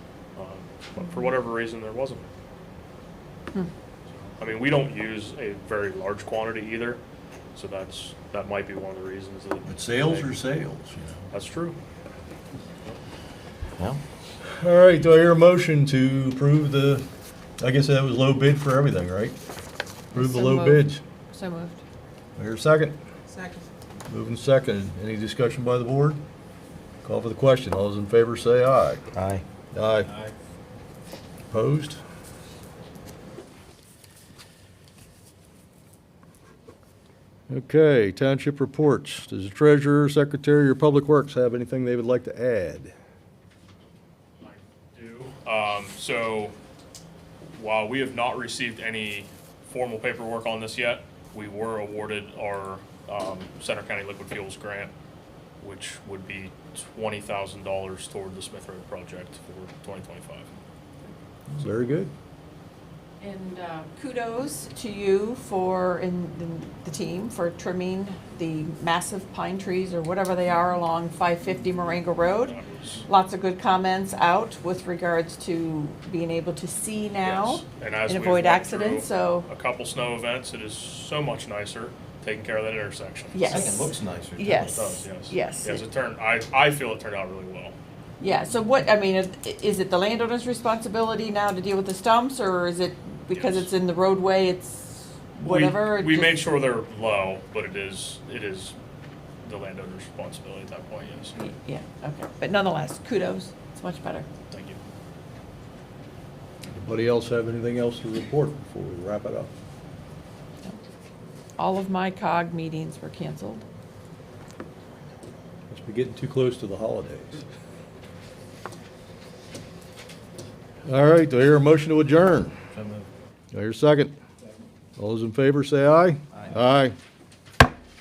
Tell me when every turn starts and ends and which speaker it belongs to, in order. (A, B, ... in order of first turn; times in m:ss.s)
0:00.4-0:02.3 A
0:04.4-0:07.0 A
0:07.5-0:10.3 A
0:09.7-0:11.2 B
0:11.3-0:11.8 A
0:14.4-0:17.1 B
0:17.6-0:19.4 B
0:20.1-0:21.0 B
0:20.1-0:21.8 C
0:22.4-0:23.0 B
0:24.1-0:26.2 B
0:27.0-0:29.1 B
0:29.1-0:29.4 D
0:29.7-0:30.1 B
0:31.5-0:32.0 B
0:37.5-0:42.9 B
0:44.4-0:46.6 A
0:47.5-0:54.9 A
0:55.6-1:00.5 A
1:01.6-1:02.1 B
1:03.2-1:19.5 C
1:12.3-1:13.0 A
1:17.2-1:23.7 A
1:23.3-1:25.8 C
1:23.5-1:24.9 D
1:24.5-1:27.8 A
1:28.2-1:36.4 C
1:33.3-1:33.7 A
1:35.4-1:38.8 A
1:39.4-1:41.4 A
1:41.4-1:44.3 C
1:44.5-1:44.8 A
1:46.7-1:49.5 B
1:51.6-1:53.6 C
1:55.7-1:57.4 B
2:00.9-2:02.5 B
2:02.8-2:03.1 D
2:03.5-2:04.2 B
2:05.0-2:07.0 B